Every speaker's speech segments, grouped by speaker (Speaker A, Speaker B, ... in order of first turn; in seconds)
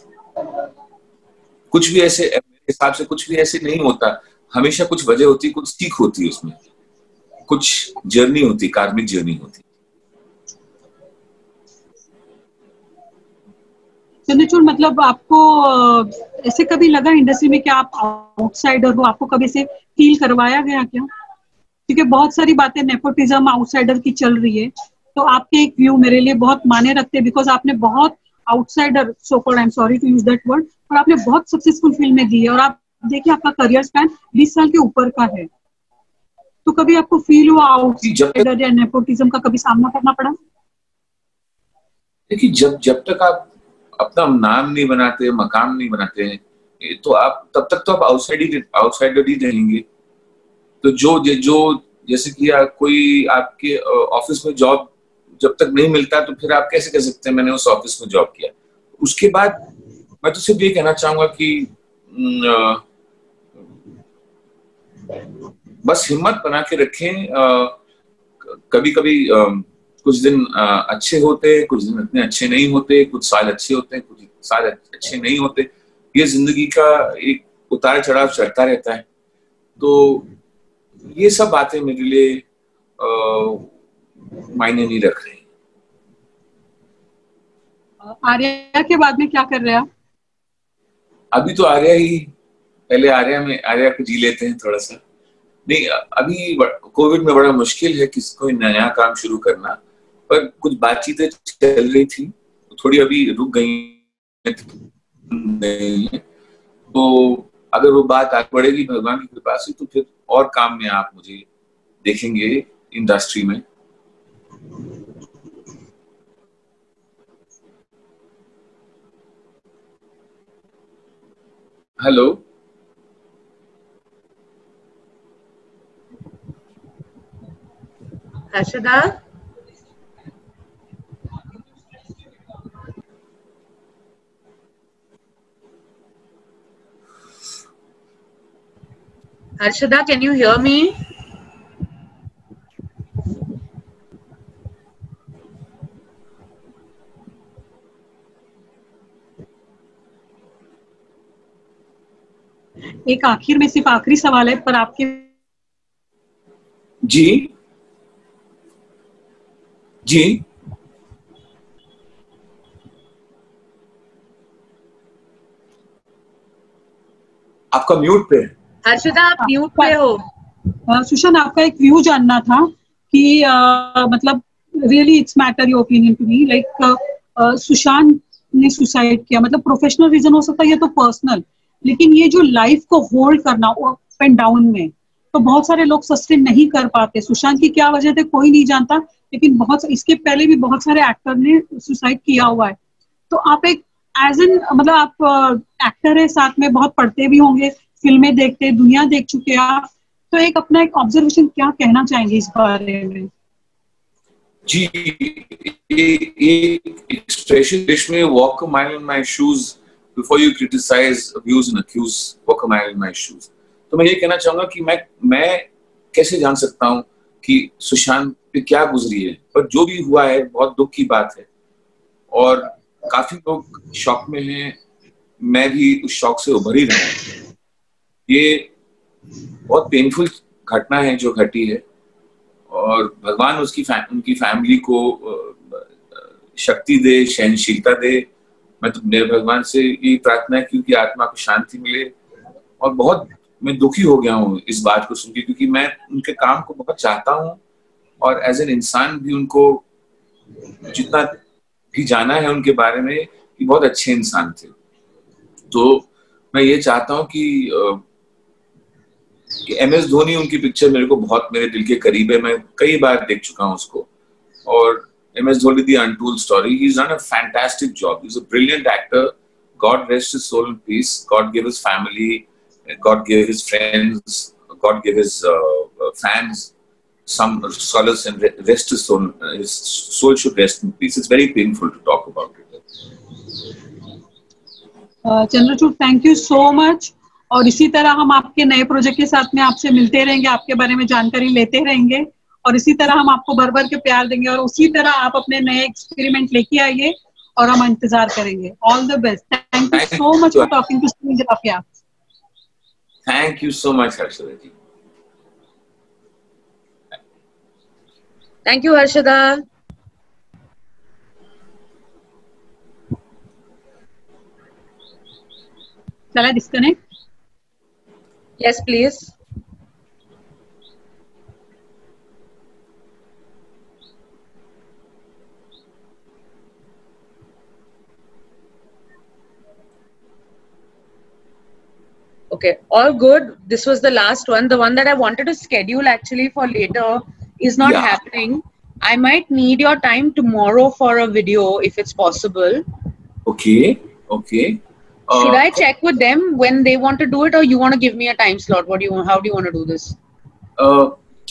Speaker A: 1.7-6.6, 7.5-9.6, 38.0-38.5, 42.3-43.5, 44.0-49.8, 50.8-59.6, 60.2-62.8, 65.8-67.8, 68.4-79.0, 79.8-80.3, 81.1-82.4, 83.0-83.7, 84.5-85.4, 91.3-92.3, 92.9-95.0, 95.7-104.7, 105.3-106.2, 106.9-111.5, 112.0-113.6, 122.0-122.4, 157.0-157.5, 160.0-160.4, 167.7-168.5, 204.7-221.4, 222.3-224.8, 225.4-227.2, 228.3-228.7, 229.7-231.8, 232.7-235.9, 236.5-238.3, 238.8-242.1, 242.8-247.6, 248.2-249.8, 250.9-251.3, 251.9-254.7, 255.7-258.0, 259.6-264.1, 264.6-276.7, 277.2-282.8, 299.9-300.7, 303.2-304.7, 337.8-338.2, 343.4-345.8, 350.8-351.1
Speaker B: 14.3-21.1, 21.9-35.5, 36.6-40.4, 88.0-89.9, 153.1-155.3, 169.4-169.9, 170.9-192.8, 193.3-203.3, 285.2-301.8, 316.3-316.9
Speaker C: 128.5-129.2, 139.6-141.0, 168.8-170.2, 308.6-309.6, 318.6-319.3, 332.5-342.8, 345.3-350.1